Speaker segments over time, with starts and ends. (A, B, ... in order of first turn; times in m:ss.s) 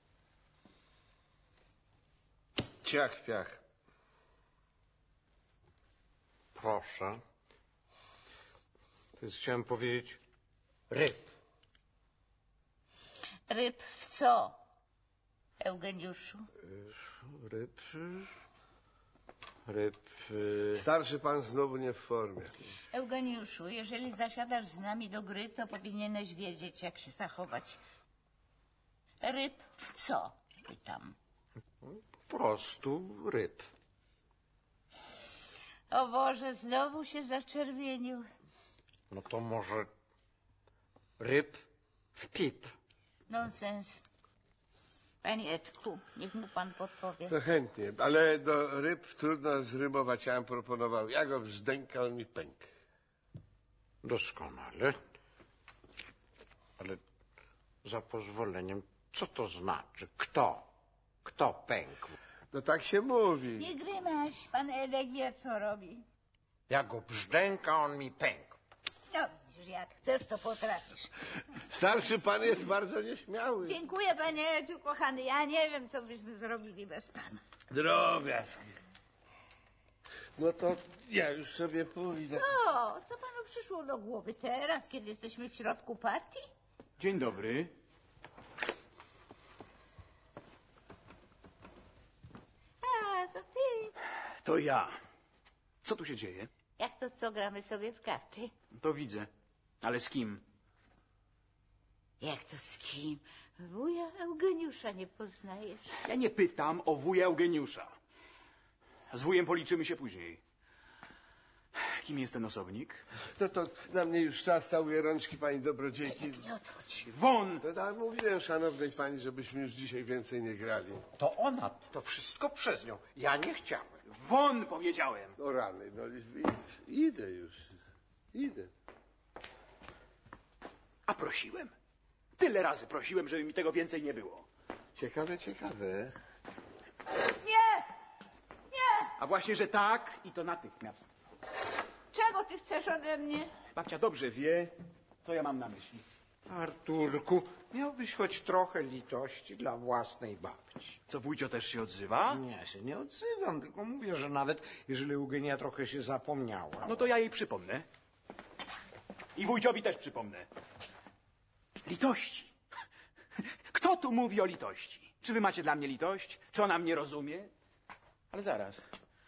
0:02.8-0:03.6 A
0:06.5-0:07.2 B
0:09.2-0:10.2 B
0:10.9-0:11.3 B
0:13.5-0:14.6 C
0:15.6-0:16.5 C
0:16.6-0:18.3 B
0:19.7-0:20.9 B
0:20.7-0:22.6 A
0:22.9-0:27.8 C
0:29.2-0:31.1 C
0:31.8-0:33.7 B
0:35.9-0:38.3 C
0:39.1-0:39.9 B
0:41.2-0:42.7 B
0:43.3-0:44.0 C
0:45.2-0:47.3 C
0:47.3-0:52.7 A
0:54.0-0:55.0 B
0:57.8-1:00.7 B
1:01.2-1:02.2 B
1:02.5-1:03.7 A
1:03.6-1:06.0 C
1:06.7-1:08.6 B
1:09.1-1:11.1 C
1:11.7-1:13.8 A
1:13.6-1:17.4 C
1:17.7-1:18.7 A
1:20.4-1:22.4 A
1:22.4-1:26.5 C
1:27.0-1:27.8 D
1:32.8-1:33.9 C
1:34.4-1:35.0 D
1:35.8-1:36.5 D
1:36.8-1:38.5 C
1:38.7-1:39.3 D
1:39.8-1:40.4 D
1:42.2-1:45.9 C
1:46.1-1:48.0 D
1:49.1-1:50.4 D
1:51.8-1:53.0 D
1:53.4-1:56.5 A
1:56.3-1:57.0 C
1:57.0-1:57.6 D
1:57.6-2:01.0 A
2:01.2-2:04.0 B
2:04.1-2:05.4 D
2:05.4-2:07.7 A
2:08.3-2:08.7 A
2:11.1-2:11.7 D
2:12.4-2:14.5 D
2:15.0-2:16.1 A
2:17.3-2:17.9 C
2:18.7-2:19.1 C
2:19.2-2:21.1 D
2:22.1-2:23.5 C
2:23.8-2:26.0 D
2:26.5-2:31.0 B
2:31.1-2:32.4 D
2:32.3-2:37.1 B
2:36.8-2:37.9 D
2:39.4-2:40.5 D
2:41.8-2:42.5 D
2:43.4-2:47.5 D
2:48.3-2:48.8 D